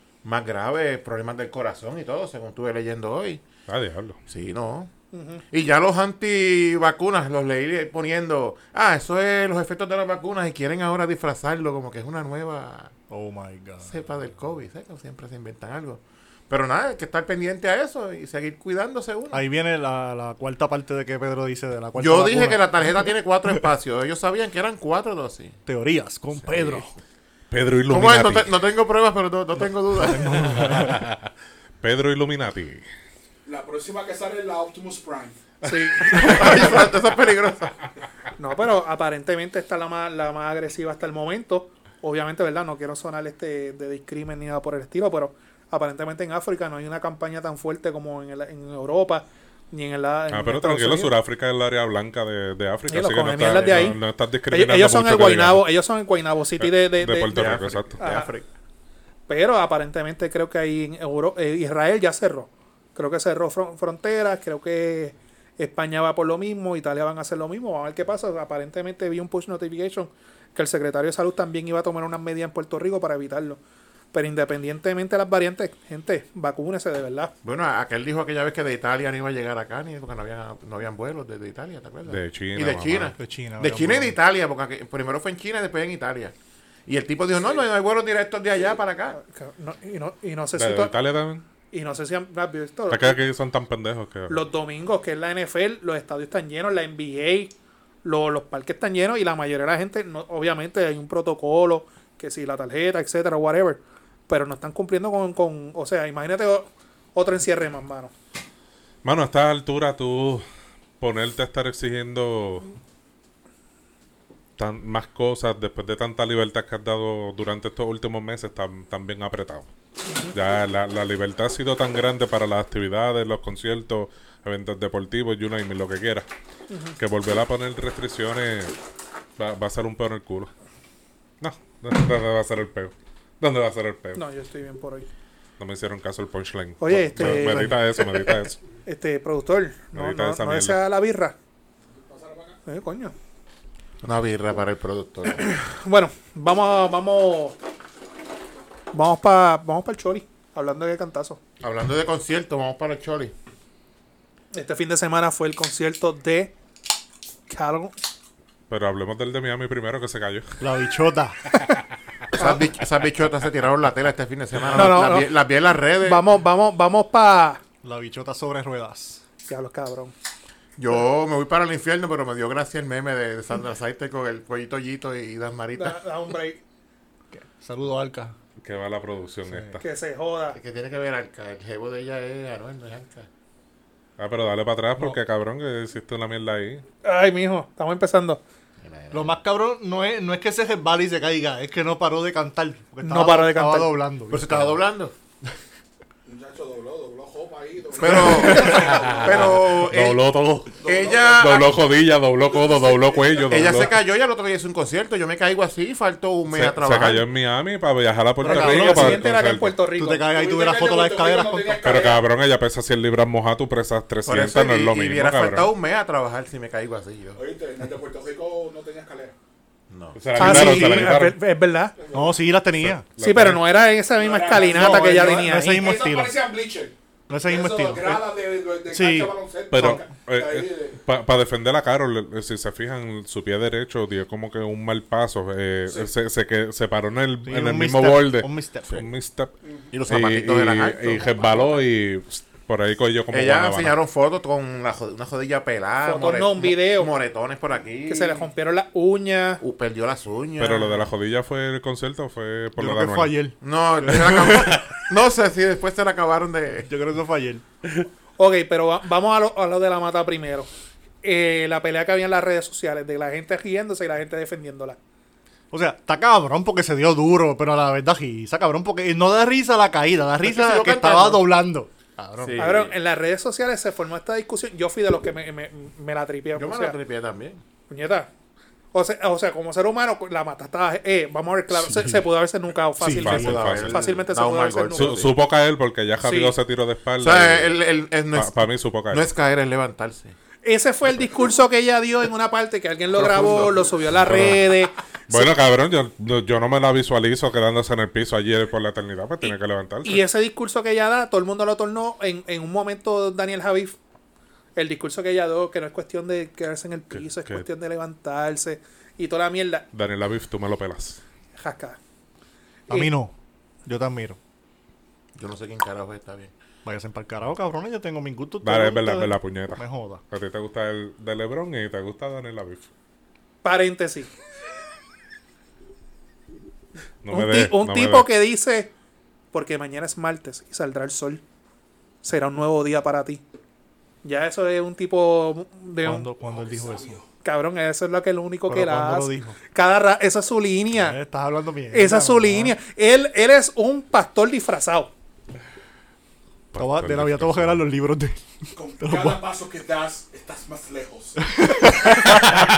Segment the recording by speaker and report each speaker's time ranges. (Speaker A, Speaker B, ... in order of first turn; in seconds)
Speaker A: 0.2-3.4, 4.3-4.9, 5.5-12.9, 13.8-19.4, 21.9-25.6, 26.4-26.9, 27.9-30.7, 36.1-37.7, 53.5-54.0, 57.3-58.4, 77.4-86.3, 86.8-89.2, 144.0-145.5, 151.6-153.3, 162.3-166.2, 170.8-176.0, 180.5-183.3, 188.8-189.4, 194.3-195.1, 197.9-200.2, 200.8-201.7, 203.5-207.2, 214.2-217.4, 219.9-220.8, 239.9-241.8, 243.3-248.4, 249.6-251.1, 253.6-256.9, 270.4-271.5, 272.4-272.9, 276.5-277.6, 283.2-285.3, 287.2-290.3, 315.4-316.5
Speaker B: 3.7-4.2, 27.5-28.5, 30.8-31.3, 31.8-32.9, 50.3-55.7, 56.6-58.0, 82.0-83.1, 90.5-91.4, 92.9-94.4, 109.0-110.4, 111.0-112.7, 114.6-119.7, 120.3-126.3, 127.0-128.7, 129.4-130.5, 131.4-134.2, 135.6-138.6, 139.9-140.8, 158.7-160.6, 178.6-179.8, 184.2-186.8, 198.8-203.9, 206.5-209.8, 211.8-215.7, 220.2-221.3, 222.8-223.7, 229.7-239.5, 240.1-243.9, 250.6-253.3, 283.2-284.1, 284.9-287.7, 288.3-289.3, 294.1-294.6, 295.3-300.2, 307.1-307.6, 309.9-311.2, 318.6-322.9, 327.2-328.3, 346.7-347.9
Speaker C: 5.1-5.4, 35.6-36.5, 38.4-51.1, 52.9-54.0, 54.5-58.3, 59.3-73.6, 74.1-77.3, 89.2-90.9, 91.7-93.2, 94.3-97.5, 98.0-108.1, 120.1-120.3, 126.7-127.0, 134.2-135.1, 136.8-137.8, 138.8-141.3, 142.7-143.1, 145.4-147.6, 148.9-151.4, 154.5-156.5, 157.5-157.9, 162.3-162.6, 164.7-165.3, 166.0-167.6, 169.4-170.1, 175.7-176.6, 179.8-180.6, 187.0-188.4, 193.0-193.9, 208.4-210.3, 220.4-221.9, 223.2-225.9, 246.0-247.1, 248.1-249.6, 258.4-260.7, 261.2-265.0, 272.6-276.9, 277.9-278.3, 278.9-285.2, 286.2-286.5, 290.6-295.5, 299.4-304.0, 304.8-309.9, 311.6-312.0, 312.9-313.1, 323.6-324.3, 327.3-328.9, 329.5-331.4, 332.2-333.4, 334.2-336.3, 337.4-341.2, 341.9-345.1
Speaker D: 13.1-13.9, 19.3-22.9, 25.6-26.9, 30.0-31.0, 36.1-36.5, 83.2-84.1, 137.2-137.7, 160.6-161.4, 167.8-169.2, 177.3-178.3, 179.5-179.8, 189.1-194.8, 198.4-198.9, 208.4-209.2, 209.9-211.8, 222.1-223.0, 224.5-226.4, 227.3-228.3, 228.9-230.0, 237.4-238.9, 252.8-254.8, 256.9-257.6, 265.7-272.7, 283.0-283.6, 312.9-313.3, 313.8-314.4, 316.8-320.2, 336.0-337.2, 338.7-339.6, 341.0-342.7, 346.8-349.4, 351.6-352.1
Speaker E: 33.5-35.4, 141.9-142.6, 196.2-199.5, 200.8-201.6, 202.5-203.7, 210.3-212.2, 217.3-219.3, 222.0-222.4, 224.1-231.0, 336.4-337.2, 348.7-351.4